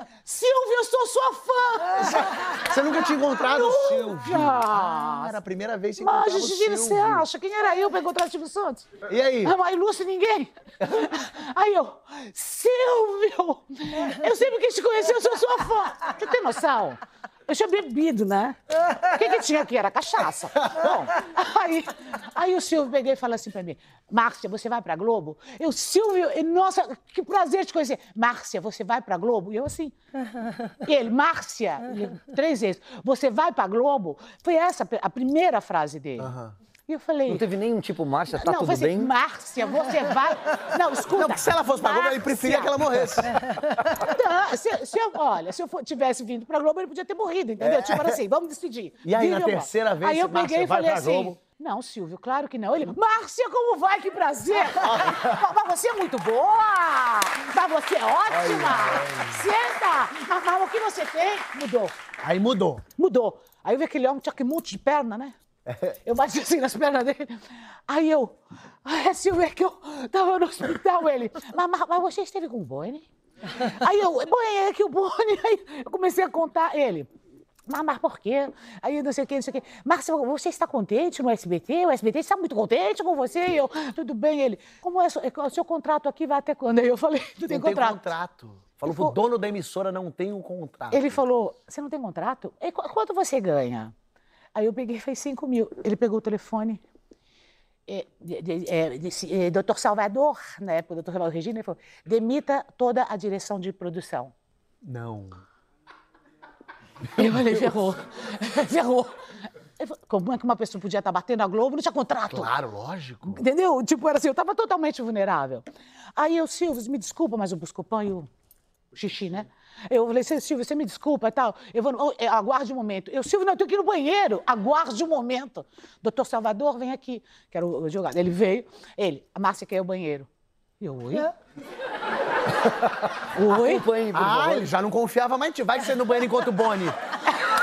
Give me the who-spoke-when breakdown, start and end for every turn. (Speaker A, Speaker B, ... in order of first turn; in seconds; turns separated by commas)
Speaker A: 0.2-2.6, Speaker B: 2.0-7.2, Speaker A: 3.4-5.3, Speaker A: 6.0-8.9, Speaker B: 9.1-9.5, Speaker A: 9.4-29.9, Speaker A: 30.8-36.3, Speaker B: 36.2-36.5, Speaker A: 36.9-37.5, Speaker C: 37.3-39.1, Speaker A: 38.4-42.7, Speaker B: 41.1-43.6, Speaker A: 43.8-62.0, Speaker B: 47.6-48.2, Speaker B: 49.0-51.4, Speaker B: 54.7-55.4, Speaker B: 58.3-59.5, Speaker B: 62.2-62.9, Speaker A: 63.0-65.3, Speaker B: 65.7-65.9, Speaker A: 66.0-77.1, Speaker A: 77.7-88.0, Speaker B: 87.5-91.2, Speaker A: 90.9-93.9, Speaker A: 94.5-96.8, Speaker A: 97.9-104.3, Speaker B: 104.8-105.4, Speaker A: 107.1-109.2, Speaker A: 109.8-112.5, Speaker B: 112.3-113.4, Speaker A: 113.3-115.7, Speaker A: 116.2-118.3, Speaker A: 118.9-130.3, Speaker A: 130.8-131.3, Speaker A: 133.3-133.9, Speaker C: 133.5-134.7, Speaker B: 134.1-137.0